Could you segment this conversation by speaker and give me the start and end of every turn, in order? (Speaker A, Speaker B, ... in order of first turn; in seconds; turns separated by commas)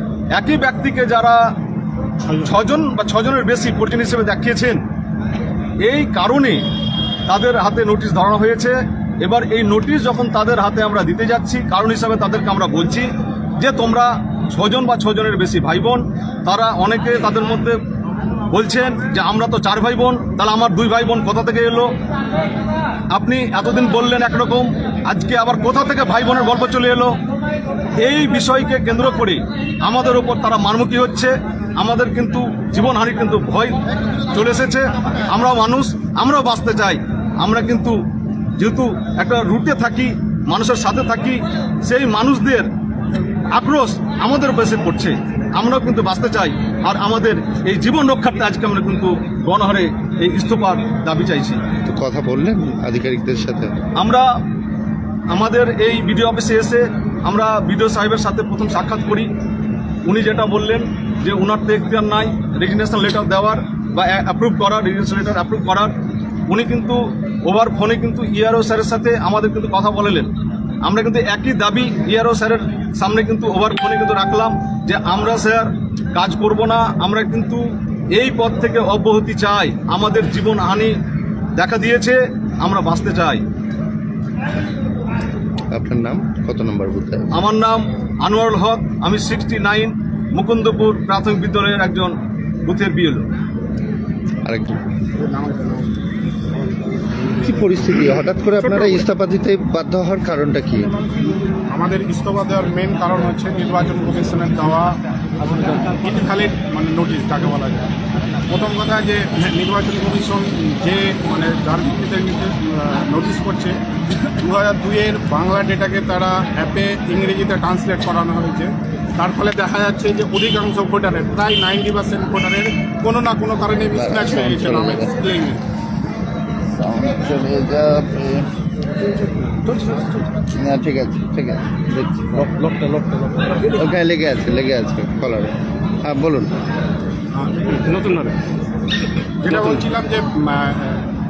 Speaker A: 0.3-1.4, Speaker A: 2.4-4.8, Speaker A: 5.8-6.7, Speaker A: 7.3-17.8, Speaker A: 18.5-21.9, Speaker A: 23.1-27.2, Speaker A: 28.0-38.0, Speaker A: 38.6-42.7, Speaker A: 43.5-51.6, Speaker B: 51.9-53.8, Speaker A: 54.0-54.3, Speaker A: 55.3-59.3, Speaker A: 60.0-66.0, Speaker A: 66.5-81.0, Speaker A: 81.6-83.5, Speaker B: 85.7-87.3, Speaker A: 87.3-93.3, Speaker B: 94.5-94.9, Speaker C: 95.2-95.9, Speaker B: 97.4-100.9, Speaker C: 101.7-105.0, Speaker C: 106.0-107.9, Speaker C: 108.5-113.8, Speaker C: 114.4-125.6, Speaker B: 123.9-125.1, Speaker B: 126.8-128.5, Speaker B: 130.4-132.5, Speaker B: 133.7-136.5, Speaker C: 139.4-141.0